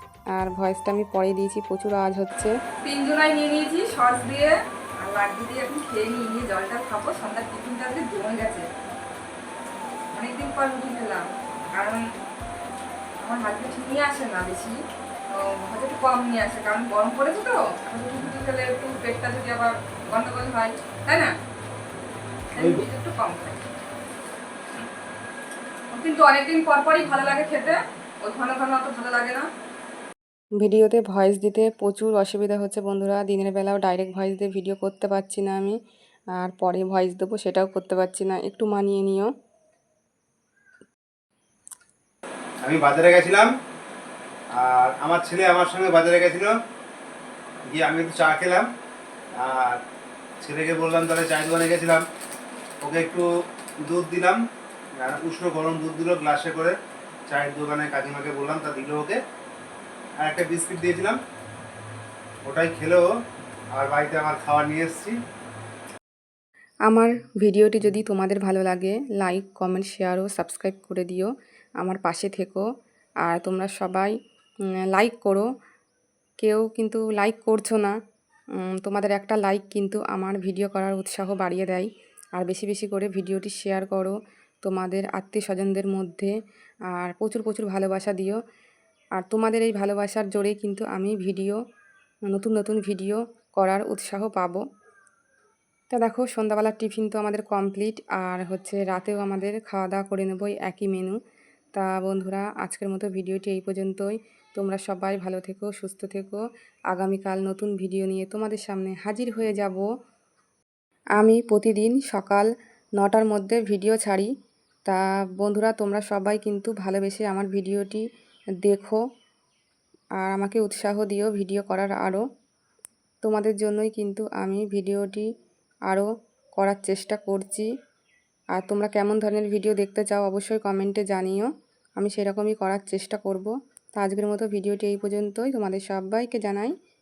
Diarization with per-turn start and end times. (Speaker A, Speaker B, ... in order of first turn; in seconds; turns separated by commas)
Speaker A: 0.3-2.5, Speaker B: 2.8-4.6, Speaker B: 5.1-8.7, Speaker B: 10.1-11.2, Speaker B: 11.8-12.0, Speaker B: 13.2-14.8, Speaker B: 15.3-21.3, Speaker B: 22.6-23.6, Speaker C: 22.6-22.9, Speaker B: 25.9-29.5, Speaker A: 30.6-35.8, Speaker A: 36.4-39.3, Speaker C: 42.6-43.5, Speaker C: 44.5-46.5, Speaker C: 47.7-48.7, Speaker C: 49.4-49.8, Speaker C: 50.4-52.0, Speaker C: 52.8-53.3, Speaker C: 53.8-54.4, Speaker C: 55.0-56.8, Speaker C: 57.3-59.2, Speaker C: 60.2-61.2, Speaker C: 62.5-63.1, Speaker C: 63.7-65.2, Speaker A: 66.9-72.7, Speaker A: 73.2-74.1, Speaker A: 74.9-75.5, Speaker A: 76.4-78.0, Speaker A: 78.6-86.3, Speaker A: 86.9-88.4, Speaker A: 89.2-91.6, Speaker A: 92.3-94.6, Speaker A: 95.9-101.2, Speaker A: 101.8-109.9, Speaker A: 111.2-114.3, Speaker A: 114.9-118.0, Speaker A: 118.6-119.0, Speaker A: 120.2-122.2, Speaker A: 123.2-125.3, Speaker A: 125.9-127.7, Speaker A: 128.5-136.8